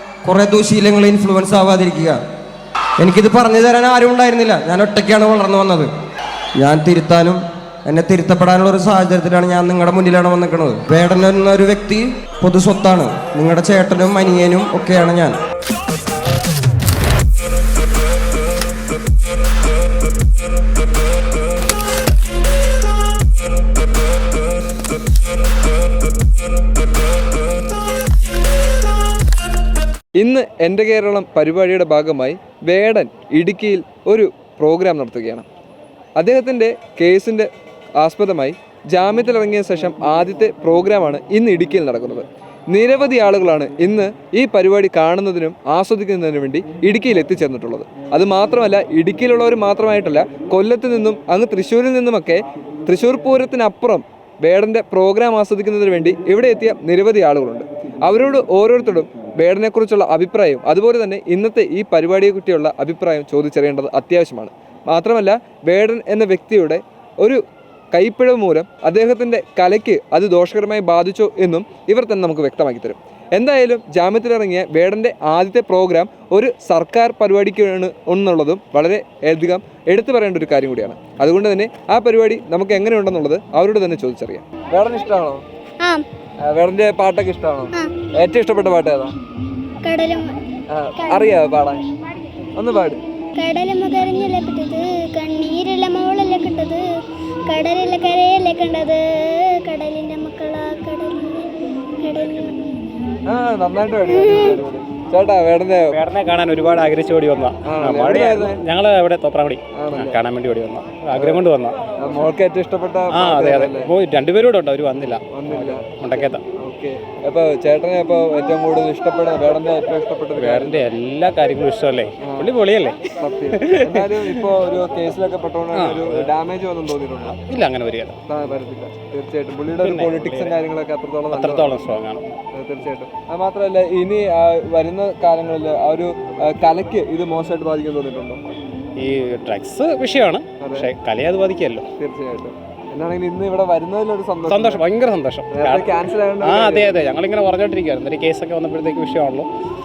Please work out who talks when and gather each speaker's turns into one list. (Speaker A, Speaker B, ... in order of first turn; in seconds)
Speaker A: 0.2-2.2, 3.0-5.9, 6.5-15.4
Speaker B: 30.1-35.5, 36.1-85.4, 86.4-89.1, 90.7-91.8, 92.5-93.0, 103.2-106.0, 107.6-108.6, 109.7-110.2, 111.1-111.5, 112.0-113.9, 115.3-120.9, 122.2-122.6, 123.2-127.4, 128.3-131.8, 132.5-138.4, 140.6-140.9, 142.0-144.8, 145.5-147.1
Speaker C: 89.8-90.3, 93.4-96.8, 97.5-102.7, 104.1-104.5
Speaker D: 105.9-111.8, 113.1-116.4, 120.3-124.5, 125.7-126.3, 127.3-128.2, 129.7-130.6, 131.3-132.3, 139.0-141.9, 144.4-149.5